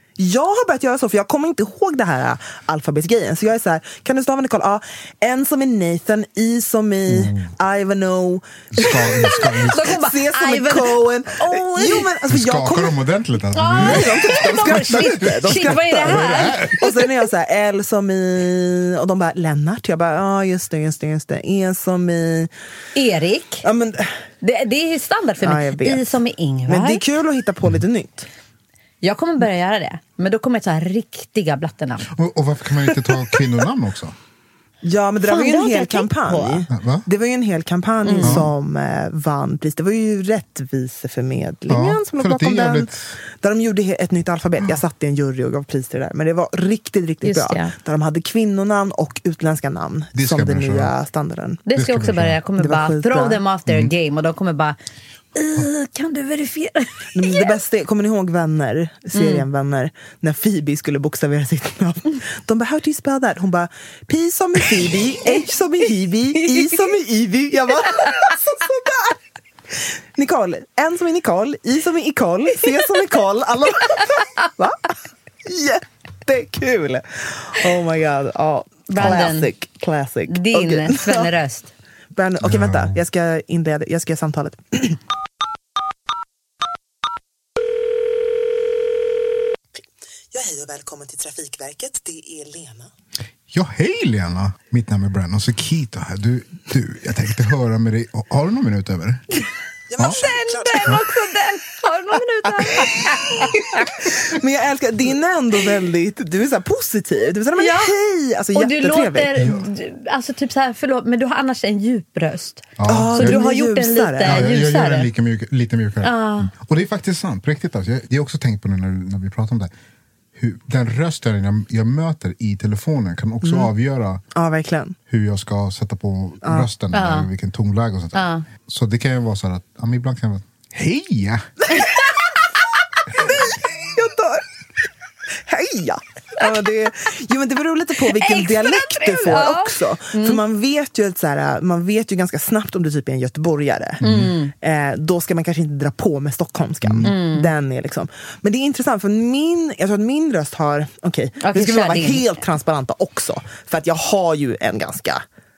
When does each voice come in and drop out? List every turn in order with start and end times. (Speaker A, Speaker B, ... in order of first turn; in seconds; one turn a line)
Speaker A: 0.2-12.9
Speaker B: 7.1-7.5
Speaker B: 8.7-9.8
Speaker C: 9.5-12.1
Speaker B: 12.3-16.8
Speaker C: 13.6-17.1
Speaker A: 13.8-22.5
Speaker C: 22.9-23.6
Speaker A: 23.6-24.2
Speaker C: 24.4-27.0
Speaker A: 25.4-28.3
Speaker C: 29.0-32.1
Speaker B: 32.1-34.1
Speaker A: 34.8-51.6
Speaker C: 35.2-36.7
Speaker B: 36.7-37.0
Speaker C: 38.0-38.5
Speaker B: 38.2-38.5
Speaker B: 41.7-43.2
Speaker C: 47.2-47.8
Speaker B: 50.1-51.0
Speaker C: 51.7-54.8
Speaker B: 51.7-52.4
Speaker A: 52.6-53.4
Speaker B: 53.7-53.9
Speaker C: 55.4-57.5
Speaker A: 57.1-69.2
Speaker C: 59.1-59.5
Speaker A: 69.8-81.3
Speaker C: 78.9-79.5
Speaker C: 80.3-81.7
Speaker A: 82.2-85.0
Speaker B: 82.4-83.0
Speaker A: 90.3-92.9
Speaker B: 93.5-99.2
Speaker A: 99.9-101.0
Speaker C: 100.0-103.9
Speaker A: 102.6-109.5
Speaker C: 107.6-108.0
Speaker C: 108.5-115.1
Speaker B: 112.8-113.4
Speaker A: 112.9-114.5
Speaker B: 114.2-119.7
Speaker C: 116.0-116.5
Speaker B: 120.3-124.2
Speaker A: 123.4-123.7
Speaker A: 124.3-125.0
Speaker B: 125.1-131.5
Speaker C: 126.9-127.3
Speaker C: 128.2-128.5
Speaker A: 133.2-134.4
Speaker A: 135.5-144.0
Speaker C: 138.1-140.4
Speaker B: 144.0-144.3
Speaker C: 144.0-144.5
Speaker A: 144.6-155.2
Speaker B: 146.8-147.1
Speaker C: 147.0-147.5
Speaker C: 151.4-152.3